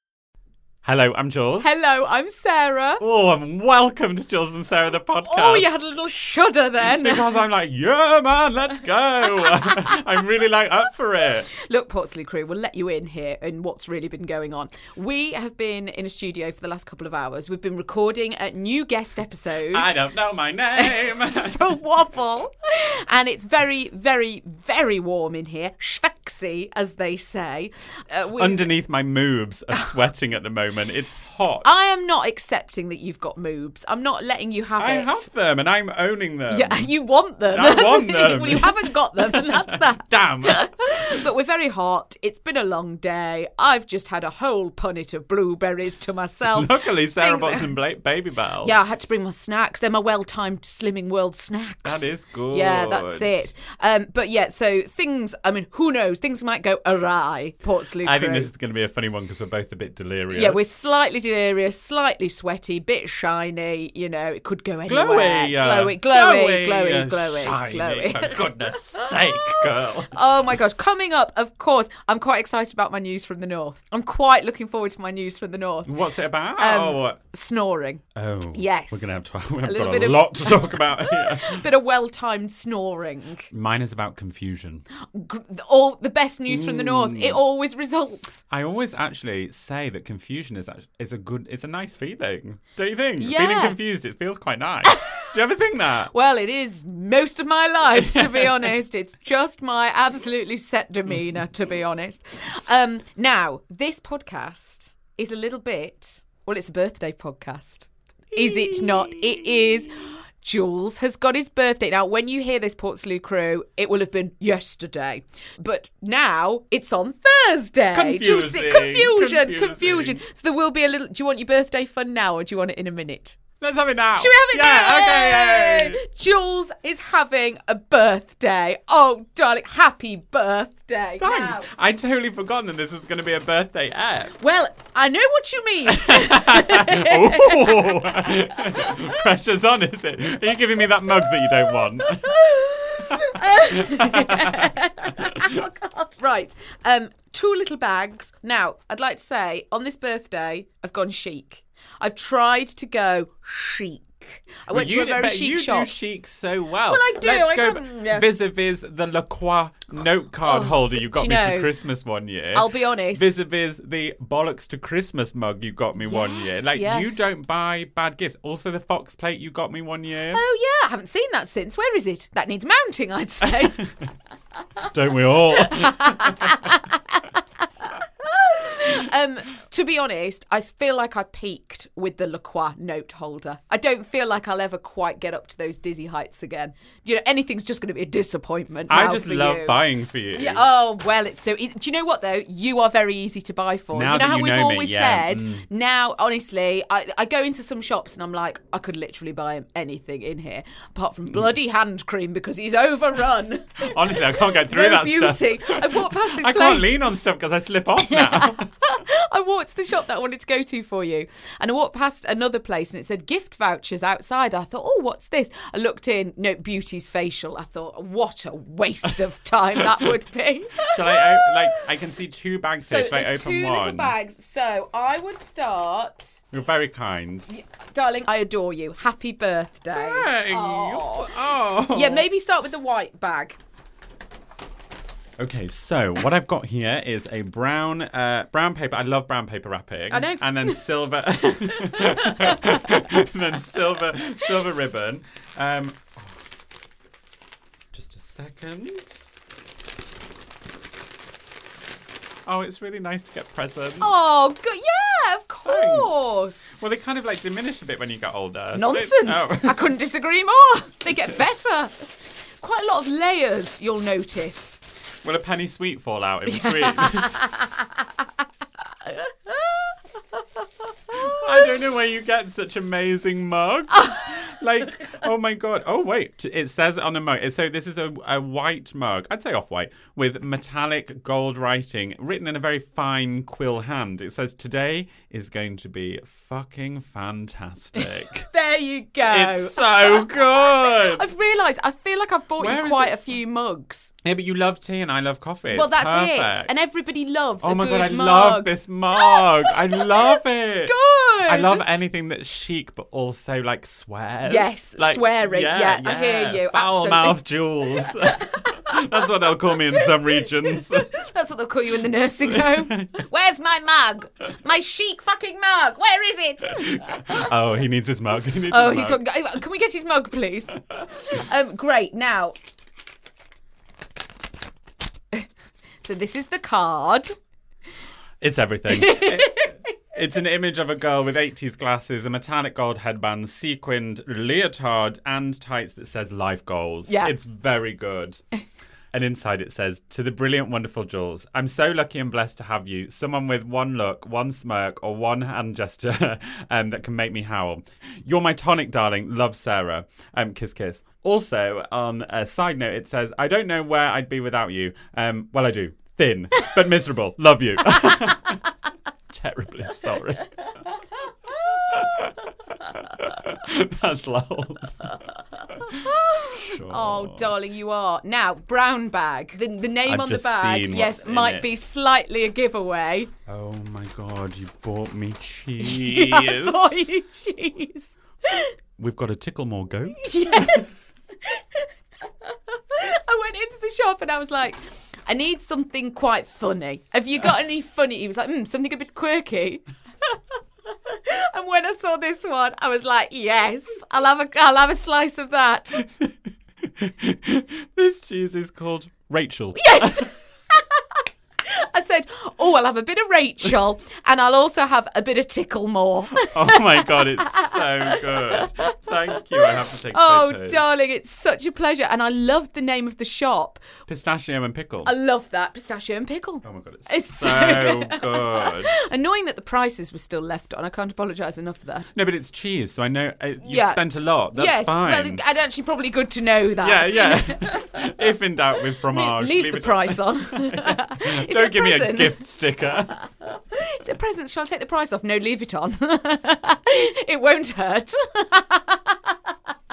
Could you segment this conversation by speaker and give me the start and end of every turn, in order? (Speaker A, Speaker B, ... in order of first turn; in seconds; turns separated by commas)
Speaker A: 0.8-1.7, Speaker B: 1.6-3.0, Speaker A: 3.0-5.7, Speaker B: 5.3-7.4, Speaker A: 6.8-11.5, Speaker B: 9.4-10.0, Speaker B: 11.5-20.0, Speaker A: 19.7-21.8, Speaker B: 20.8-28.7, Speaker A: 28.4-31.7, Speaker B: 31.6-35.2, Speaker A: 34.8-36.9, Speaker B: 36.5-47.7, Speaker A: 37.5-41.1, Speaker A: 46.5-48.7, Speaker B: 48.6-58.5, Speaker A: 51.8-53.4, Speaker A: 58.0-60.6, Speaker B: 60.3-75.9, Speaker A: 64.9-70.1, Speaker A: 75.9-77.2, Speaker B: 76.6-78.0, Speaker A: 78.2-81.7, Speaker B: 78.5-83.5, Speaker A: 83.5-84.8, Speaker B: 85.0-88.4, Speaker A: 86.5-87.4, Speaker A: 88.5-96.1, Speaker B: 93.2-93.8, Speaker B: 94.9-95.2, Speaker B: 96.1-123.4, Speaker A: 98.0-98.7, Speaker A: 108.3-109.8, Speaker A: 117.9-120.2, Speaker A: 123.6-126.0, Speaker B: 124.2-131.7, Speaker A: 131.2-134.4, Speaker B: 134.4-139.2, Speaker A: 135.9-142.4, Speaker B: 142.0-155.9, Speaker A: 143.2-145.5, Speaker A: 154.7-170.4, Speaker B: 156.9-158.3, Speaker B: 160.4-161.7, Speaker B: 162.5-163.2, Speaker B: 166.0-167.3, Speaker B: 170.3-173.8, Speaker A: 173.4-173.9, Speaker A: 174.9-176.6, Speaker B: 175.5-177.3, Speaker B: 177.8-189.8, Speaker A: 188.9-190.7, Speaker B: 190.3-206.9, Speaker A: 193.9-195.7, Speaker A: 203.8-208.7, Speaker B: 208.0-221.9, Speaker A: 220.8-224.1, Speaker B: 222.8-226.4, Speaker A: 226.5-227.5, Speaker B: 227.5-231.3, Speaker A: 229.9-232.2, Speaker B: 231.9-233.6, Speaker A: 235.4-246.4, Speaker B: 240.1-240.8, Speaker B: 241.7-242.8, Speaker A: 247.9-249.2, Speaker A: 252.5-254.1, Speaker B: 254.0-256.7, Speaker A: 255.7-256.1, Speaker A: 256.8-259.8, Speaker B: 258.8-264.8, Speaker A: 265.2-267.4, Speaker B: 266.5-267.9, Speaker B: 269.1-269.9, Speaker B: 271.1-271.4, Speaker A: 271.2-288.5, Speaker B: 288.0-294.1, Speaker A: 289.3-291.3, Speaker A: 292.6-293.3, Speaker A: 294.2-296.7, Speaker B: 295.7-301.8, Speaker A: 297.6-300.9, Speaker A: 301.5-311.1, Speaker B: 304.5-307.4, Speaker B: 308.0-309.3, Speaker B: 310.0-317.5, Speaker A: 312.5-313.2, Speaker A: 316.8-319.2, Speaker B: 318.7-322.6, Speaker B: 326.0-327.3, Speaker A: 328.4-338.4, Speaker B: 328.9-329.7, Speaker B: 337.1-337.4, Speaker A: 339.1-358.6, Speaker A: 359.3-360.6, Speaker A: 361.9-362.3, Speaker A: 363.0-365.2, Speaker A: 365.8-367.5, Speaker B: 365.9-373.3, Speaker A: 370.1-371.7, Speaker A: 373.5-377.1, Speaker B: 375.8-378.7, Speaker A: 379.0-380.9, Speaker B: 380.2-381.9, Speaker B: 382.4-390.4, Speaker B: 391.1-396.0, Speaker A: 396.0-396.3, Speaker A: 397.0-400.3, Speaker B: 399.8-401.0, Speaker B: 401.6-413.8, Speaker A: 406.4-410.9, Speaker A: 414.1-415.1, Speaker B: 415.1-422.1, Speaker A: 416.6-419.1, Speaker A: 422.1-425.4, Speaker B: 423.6-428.1, Speaker A: 426.8-433.2, Speaker B: 429.1-432.4, Speaker B: 433.5-439.4